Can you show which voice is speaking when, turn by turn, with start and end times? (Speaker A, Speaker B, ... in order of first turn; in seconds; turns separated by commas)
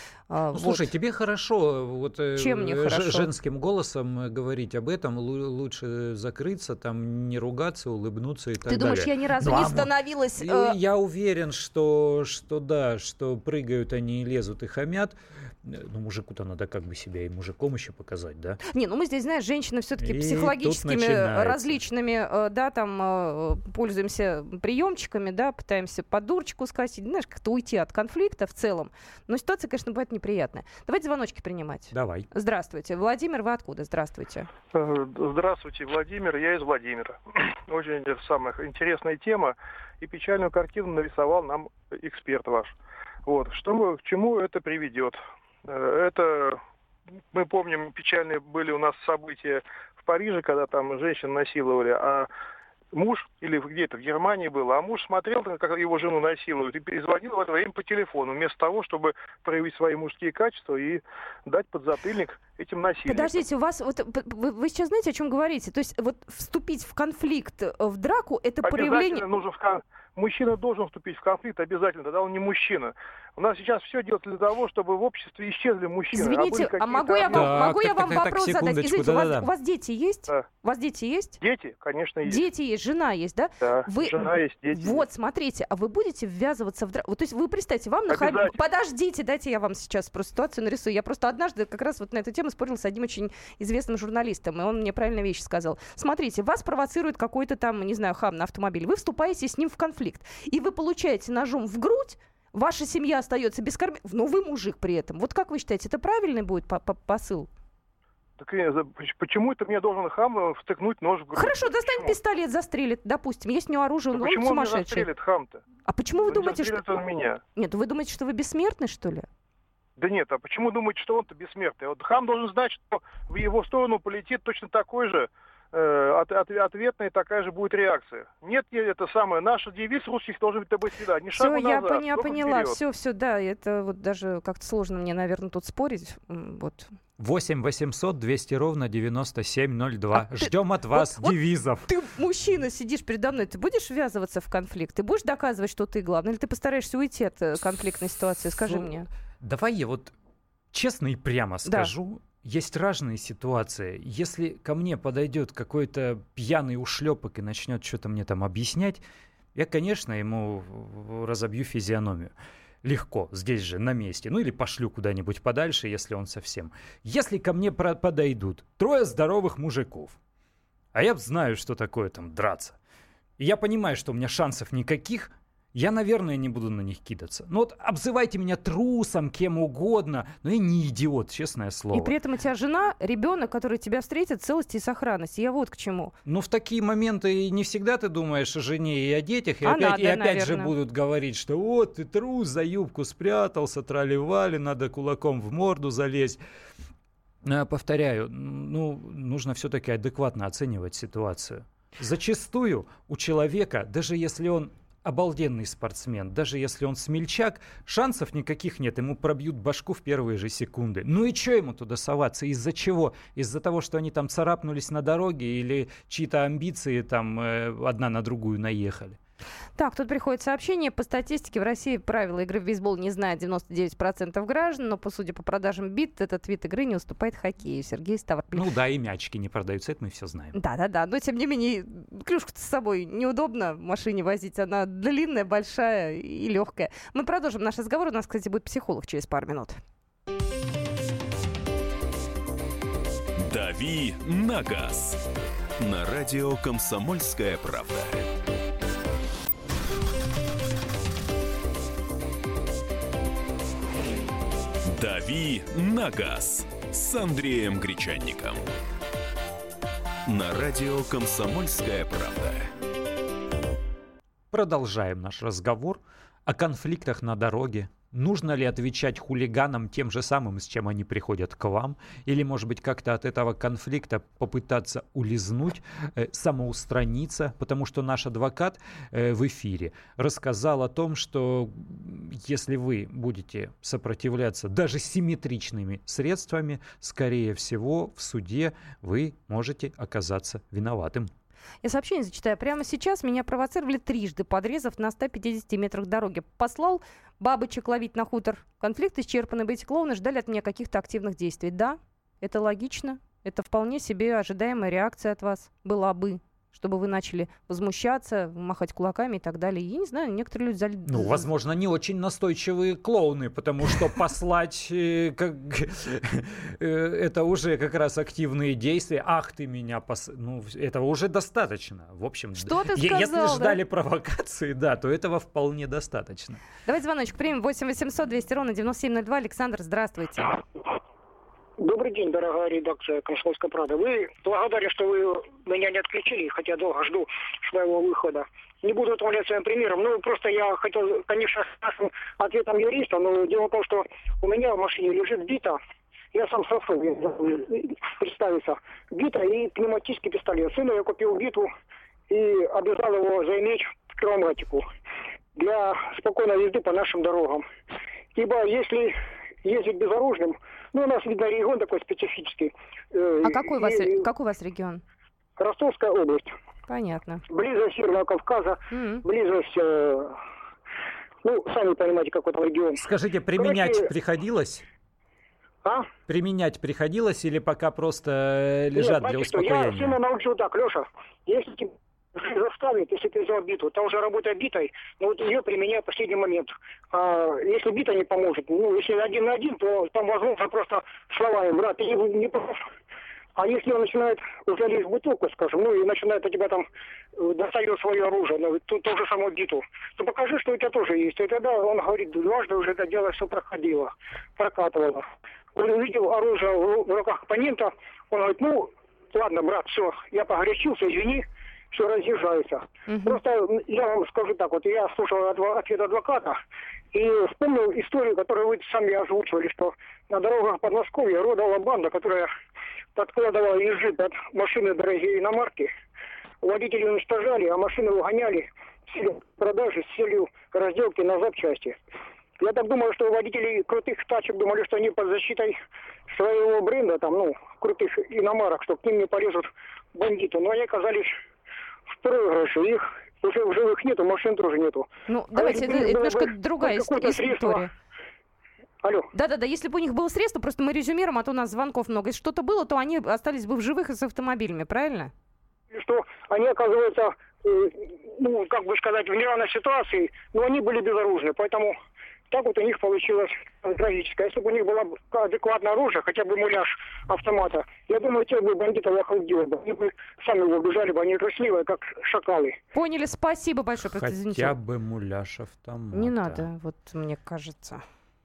Speaker A: 0.3-0.9, Speaker B: 0.5-18.6, Speaker A: 2.4-3.3, Speaker A: 8.7-10.8, Speaker A: 18.7-34.5, Speaker B: 20.0-21.8, Speaker B: 31.9-32.3, Speaker C: 34.7-42.8, Speaker C: 43.3-46.6, Speaker C: 47.3-52.3, Speaker C: 52.9-63.4, Speaker A: 63.1-69.3, Speaker C: 68.6-77.6, Speaker A: 76.1-81.4, Speaker B: 77.3-79.5, Speaker C: 81.4-82.4, Speaker A: 82.2-107.5, Speaker C: 83.6-85.0, Speaker C: 88.1-88.6, Speaker C: 108.4-112.2, Speaker A: 111.3-115.1, Speaker C: 114.1-115.6, Speaker A: 115.9-116.9, Speaker C: 116.2-117.4, Speaker A: 117.5-119.3, Speaker C: 120.0-132.8, Speaker A: 131.4-136.9, Speaker B: 137.2-141.9, Speaker A: 140.2-149.1, Speaker B: 149.4-150.1, Speaker B: 150.7-159.0, Speaker A: 151.7-151.9, Speaker B: 159.6-170.2, Speaker B: 170.9-172.8, Speaker B: 173.4-182.1, Speaker A: 181.9-186.2, Speaker B: 186.2-196.4, Speaker A: 189.6-190.7, Speaker B: 197.4-219.2, Speaker A: 219.8-228.7, Speaker B: 228.5-230.6, Speaker A: 230.6-239.8, Speaker D: 243.4-245.2, Speaker D: 245.8-248.3, Speaker D: 254.9-258.7, Speaker D: 260.3-262.7, Speaker B: 264.5-291.3, Speaker A: 291.8-311.5, Speaker B: 311.1-326.6, Speaker A: 322.6-323.8, Speaker A: 326.9-330.6, Speaker E: 331.8-345.8, Speaker E: 346.3-351.7, Speaker E: 352.3-354.9, Speaker E: 355.6-357.7, Speaker E: 358.4-364.2, Speaker A: 363.4-365.0, Speaker E: 365.6-366.6, Speaker A: 366.9-367.4, Speaker E: 367.5-370.4, Speaker A: 368.9-369.2, Speaker E: 371.4-374.1, Speaker B: 373.0-374.9, Speaker E: 375.8-376.1, Speaker B: 376.3-380.2, Speaker E: 378.9-392.8, Speaker E: 393.6-416.6, Speaker A: 413.1-413.4, Speaker E: 417.1-422.5, Speaker E: 423.2-425.9, Speaker E: 426.6-432.0, Speaker E: 432.6-441.4, Speaker E: 442.2-447.9, Speaker A: 445.3-447.9, Speaker E: 449.0-449.3, Speaker A: 449.3-455.3, Speaker E: 455.9-461.9, Speaker E: 462.5-472.8, Speaker A: 472.9-474.7, Speaker B: 474.1-476.7, Speaker A: 476.1-478.0